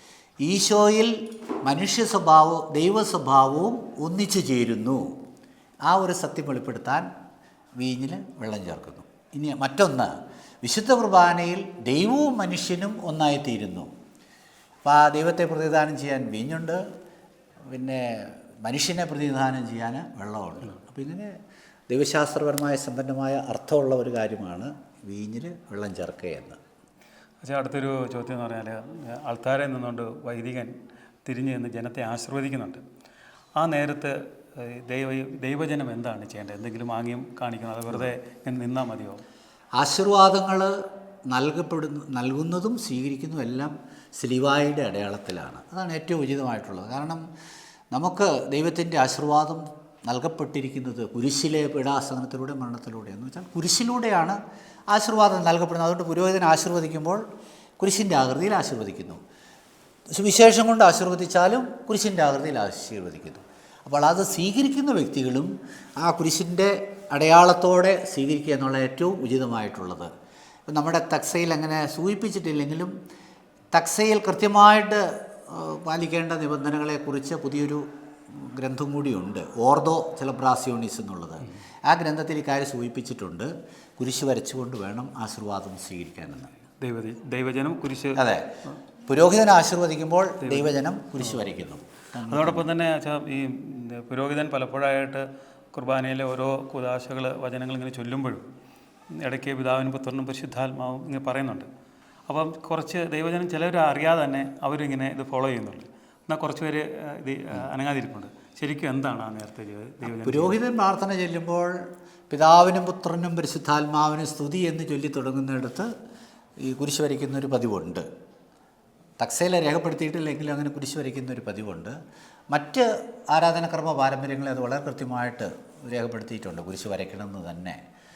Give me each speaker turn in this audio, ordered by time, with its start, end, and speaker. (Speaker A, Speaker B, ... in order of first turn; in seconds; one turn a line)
Speaker A: 0.4-5.1
Speaker A: 5.8-7.1
Speaker A: 7.8-13.9
Speaker A: 14.8-16.8
Speaker A: 17.7-21.4
Speaker A: 21.9-26.6
Speaker B: 27.4-30.7
Speaker B: 31.2-32.8
Speaker B: 33.6-39.2
Speaker A: 39.8-40.8
Speaker A: 41.3-47.2
Speaker A: 47.9-54.4
Speaker A: 54.9-57.2
Speaker A: 57.8-59.2
Speaker A: 60.1-70.1
Speaker A: 70.7-72.9
Speaker A: 73.7-86.5
Speaker B: 86.8-88.8
Speaker A: 88.2-88.5
Speaker A: 89.1-92.7
Speaker B: 90.4-90.7
Speaker B: 92.3-98.5
Speaker B: 99.2-101.7
Speaker B: 102.3-110.5
Speaker A: 110.0-111.7
Speaker A: 112.3-115.9
Speaker A: 116.6-118.0
Speaker A: 119.2-121.9
Speaker A: 122.5-127.8